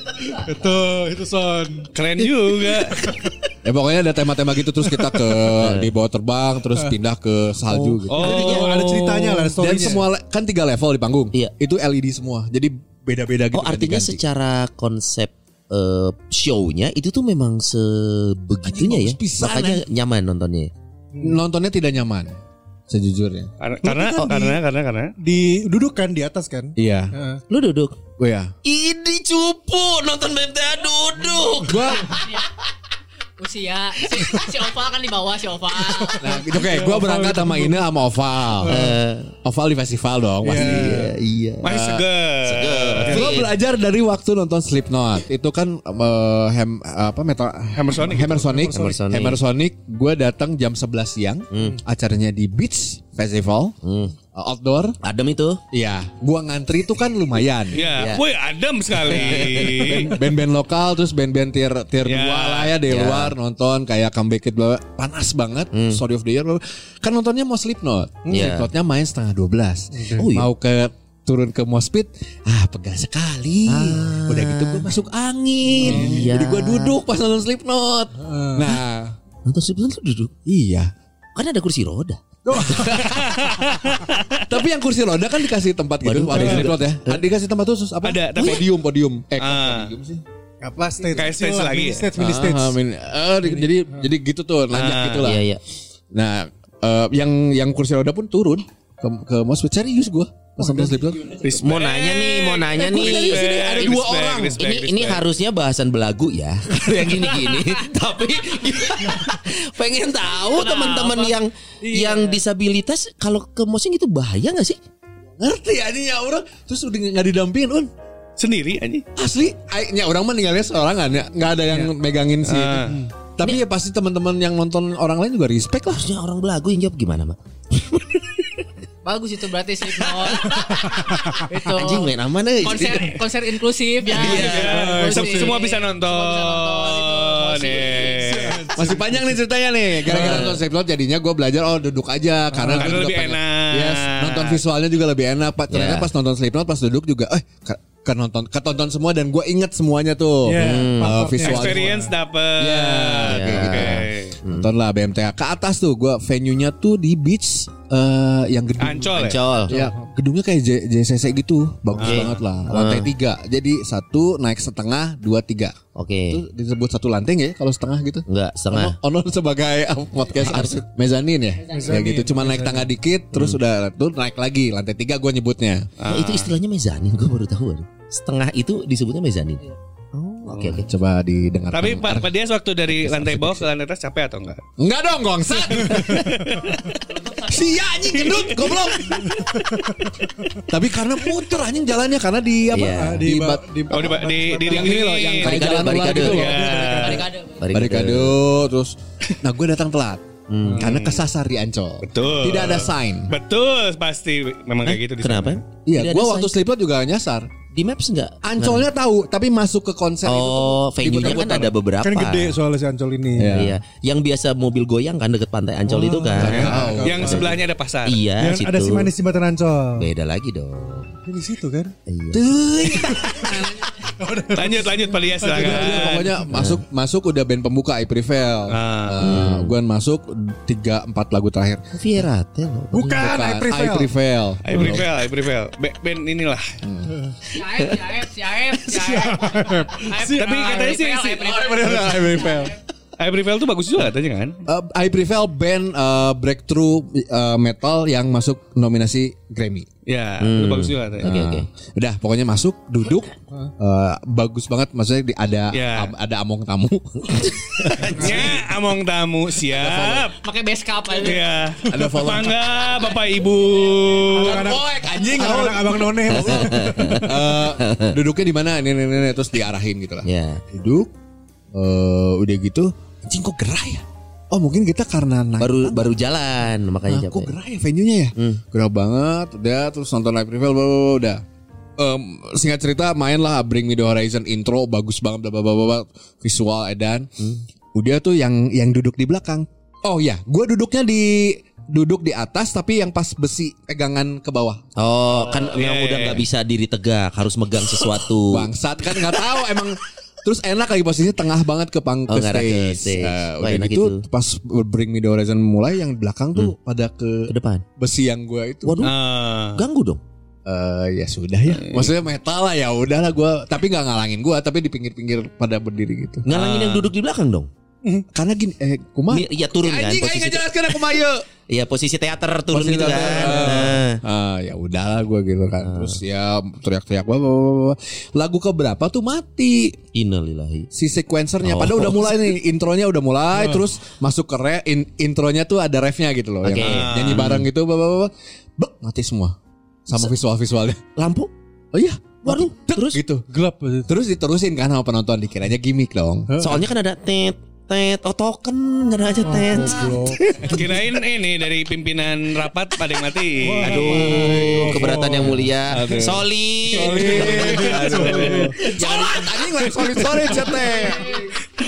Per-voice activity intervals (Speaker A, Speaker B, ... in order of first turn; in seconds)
Speaker A: 0.2-1.9, 3.0-3.3, 8.0-10.1, 21.1-21.4, 23.8-24.6, 25.2-27.4, 31.7-32.1, 36.0-37.9, 38.6-38.9, 40.4-41.1, 48.4-48.9, 69.9-70.3, 75.8-76.3, 78.2-78.8, 82.5-83.0, 90.6-92.8, 93.5-94.0, 100.6-101.1, 130.4-131.5, 134.6-135.5, 138.2-139.4, 140.0-140.6, 142.5-142.9, 150.5-152.1, 159.7-160.0, 171.7-172.9, 189.3-190.6, 192.9-195.3, 196.2-197.3, 212.0-213.6, 215.9-217.6, 218.4-220.1, 221.3-221.9, 224.2-226.2, 232.9-234.1, 237.2-237.4, 238.9-240.7, 242.0-242.6, 258.2-258.5, 261.9-262.2, 264.3-267.2, 333.6-333.8, 343.5-344.1, 346.5-346.8, 349.4-350.4, 353.6-355.7, 357.0-358.9
Speaker B: 1.9-3.0, 8.1-9.5, 23.6-25.1, 41.6-43.2, 47.8-48.6, 57.7-60.2, 62.0-62.8, 83.2-84.4, 88.0-88.7, 89.4-89.9, 91.1-92.1, 94.7-95.3, 101.4-105.2, 118.4-119.0, 122.5-122.9, 134.1-138.7, 142.7-144.6, 151.4-154.4, 158.8-159.4, 176.0-176.5, 180.5-180.8, 181.7-184.6, 185.7-186.8, 188.1-189.3, 193.9-197.3, 200.8-201.2, 202.0-205.6, 216.6-218.2, 224.5-226.3, 228.7-229.4, 234.7-236.7, 240.2-241.6, 243.2-244.6, 250.1-251.3, 255.7-256.1, 258.1-260.4, 261.2-264.6, 295.7-296.4, 309.0-309.8, 311.8-312.1, 316.5-317.1, 336.8-337.5, 350.7-354.4, 355.9-356.4, 357.2-358.7
Speaker C: 3.6-8.6, 9.6-14.2, 18.7-19.9, 21.2-22.4, 22.9-23.5, 26.8-27.1, 28.2-28.5, 31.7-32.1, 36.1-38.8, 39.4-41.1, 43.0-53.8, 54.3-55.0, 55.7-57.8, 59.1-79.2, 80.5-80.9, 82.5-83.4, 84.5-90.2, 92.2-95.5, 96.1-101.4, 102.7-104.6, 115.4-117.9, 119.2-126.1, 138.7-151.9, 152.6-159.1, 159.7-165.8, 166.3-175.9, 180.7-182.3, 182.9-183.7, 184.8-186.4, 187.4-189.4, 190.6-193.7, 194.7-196.7, 197.7-200.2, 200.8-203.3, 205.9-207.5, 208.4-211.7, 213.4-213.8, 216.4-217.5, 222.3-223.8, 225.5-231.8, 233.2-235.1, 236.8-237.2, 241.4-242.7, 244.7-249.9, 251.2-258.6, 259.7-260.3, 261.9-262.6, 264.4-271.1, 271.7-276.2, 277.1-281.4, 282.0-287.3, 287.9-294.8, 298.5-309.1, 310.7-316.4, 318.3-321.4, 322.7-330.0, 330.9-339.6, 340.1-341.0, 341.9-343.5, 344.1-346.5, 356.9-361.4
Speaker D: 5.6-5.9, 13.5-20.7, 27.5-27.9, 28.6-32.2, 38.7-39.3, 40.5-43.5, 48.7-49.4, 51.5-51.8, 53.8-54.2, 55.0-55.6, 57.9-58.2, 59.0-59.9, 62.9-63.4, 65.7-66.0, 68.3-68.7, 70.2-70.5, 73.7-74.9, 75.8-77.0, 79.5-80.3, 81.3-82.7, 86.0-87.2, 95.2-95.6, 101.6-103.4, 104.5-114.8, 125.9-128.6, 131.7-133.2, 134.2-134.7, 145.7-146.1, 150.6-151.2, 153.3-154.7, 159.1-159.7, 162.0-163.1, 165.9-166.4, 168.3-169.0, 170.4-170.8, 173.3-173.6, 176.1-179.6, 180.1-180.8, 192.7-193.3, 195.4-196.8, 197.6-198.4, 200.5-200.8, 204.8-206.5, 207.7-208.9, 210.2-212.6, 213.5-217.5, 218.1-219.1, 220.0-221.2, 222.1-223.1, 226.5-226.8, 229.2-229.7, 231.9-233.4, 250.4-251.7, 257.3-258.4, 266.3-268.1, 270.2-270.6, 275.6-277.5, 278.4-278.6, 295.0-298.7, 302.3-304.3, 307.5-307.8, 308.9-309.1, 309.8-310.2, 316.4-317.7, 319.3-324.2, 325.8-326.2, 330.1-330.9, 331.6-332.5, 336.6-337.7, 341.2-341.5, 342.4-343.2, 346.6-350.8, 353.8-357.5, 358.8-359.5
Speaker E: 32.2-32.5, 33.4-36.3, 110.5-111.3, 129.1-138.4, 171.7-172.0, 197.0-197.7, 237.5-242.8, 260.3-261.5